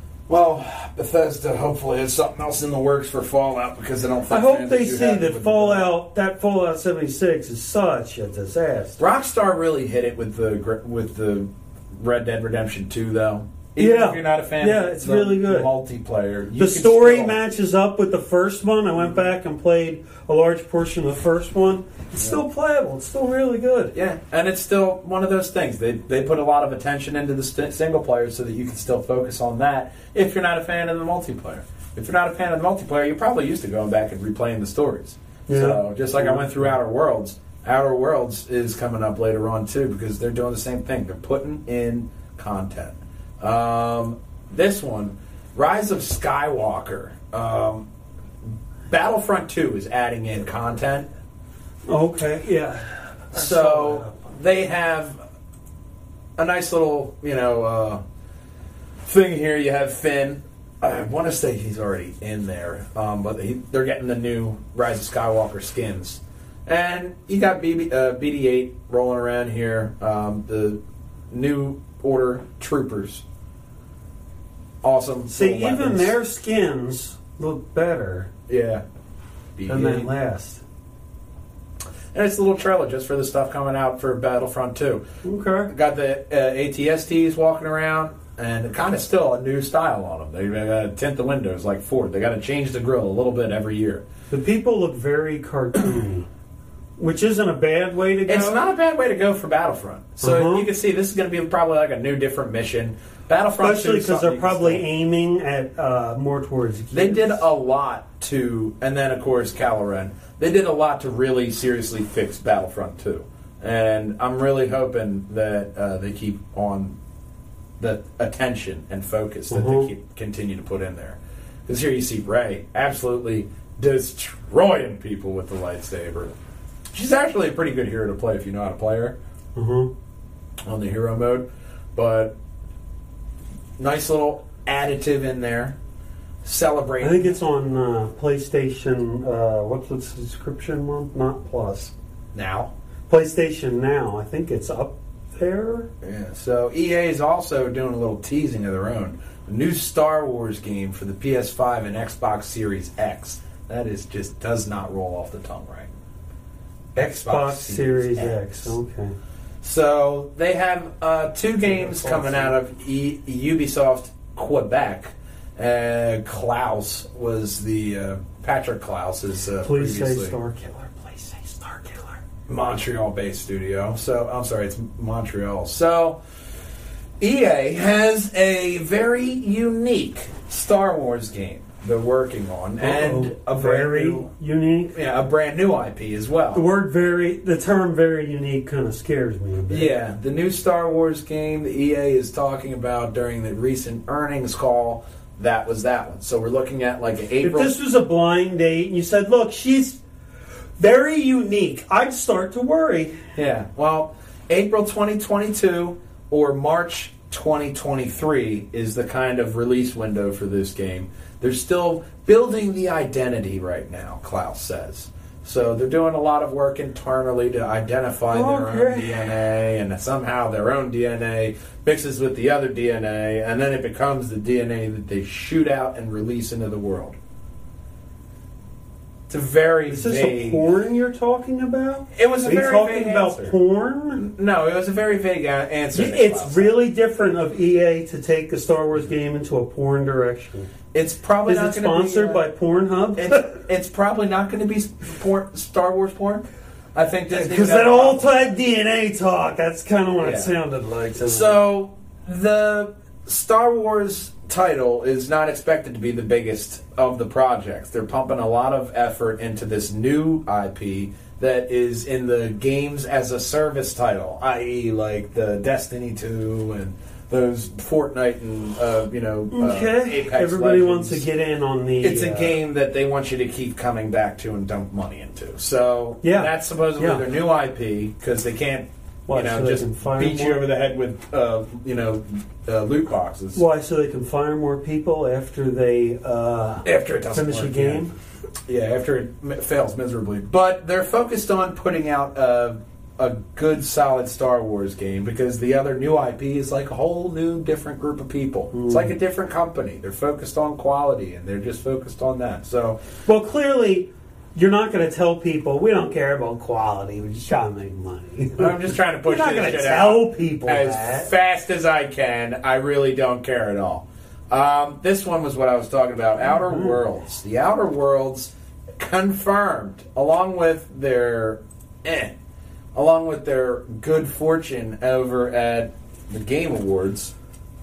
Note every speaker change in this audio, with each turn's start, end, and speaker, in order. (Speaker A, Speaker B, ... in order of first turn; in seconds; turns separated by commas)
Speaker A: 0.3-5.9, Speaker B: 4.3-9.0, Speaker A: 9.0-17.4, Speaker B: 13.8-15.7, Speaker B: 16.6-23.9, Speaker A: 23.9-47.9, Speaker B: 35.5-36.7, Speaker A: 48.9-51.1, Speaker B: 51.9-54.1, Speaker A: 53.3-55.2, Speaker A: 56.4-58.0, Speaker A: 59.0-70.8, Speaker A: 71.3-73.2, Speaker A: 74.8-76.1, Speaker B: 75.3-78.3, Speaker A: 78.5-78.8, Speaker A: 79.6-80.1, Speaker B: 79.7-80.6, Speaker A: 82.1-85.0, Speaker B: 85.2-85.7, Speaker A: 85.7-94.0, Speaker B: 94.3-96.3, Speaker B: 97.0-98.6, Speaker A: 98.2-104.8, Speaker B: 100.2-100.7, Speaker B: 103.6-107.4, Speaker A: 106.9-117.0, Speaker A: 117.8-126.3, Speaker B: 119.5-119.9, Speaker A: 126.9-129.2, Speaker B: 129.6-129.9, Speaker A: 130.7-132.4, Speaker A: 133.8-135.8, Speaker A: 136.4-137.3, Speaker B: 137.0-141.9, Speaker A: 142.3-142.7, Speaker B: 143.1-145.9, Speaker A: 146.0-155.9, Speaker A: 157.0-158.8, Speaker B: 157.0-159.2, Speaker A: 159.6-170.3, Speaker B: 161.7-162.5, Speaker B: 169.6-172.2, Speaker A: 172.5-176.2, Speaker A: 177.2-184.3, Speaker B: 182.8-184.9, Speaker A: 184.9-186.6, Speaker B: 186.5-189.9, Speaker A: 189.7-197.8, Speaker B: 197.4-200.0, Speaker B: 200.8-203.2, Speaker A: 203.3-227.2, Speaker B: 218.3-219.3, Speaker A: 229.3-230.7, Speaker B: 229.9-234.2, Speaker A: 232.1-233.5, Speaker A: 234.2-236.7, Speaker B: 235.9-240.7, Speaker A: 240.9-242.4, Speaker B: 241.5-243.6, Speaker A: 243.2-248.3, Speaker B: 247.3-251.6, Speaker A: 250.2-250.5, Speaker A: 251.2-271.3, Speaker B: 269.5-272.6, Speaker A: 272.0-283.6, Speaker B: 276.2-277.2, Speaker B: 279.3-280.6, Speaker B: 283.6-288.1, Speaker A: 286.9-288.1, Speaker A: 288.7-303.0, Speaker B: 298.7-299.2, Speaker B: 303.3-311.3, Speaker A: 308.6-322.3, Speaker B: 316.4-317.0, Speaker A: 322.9-327.3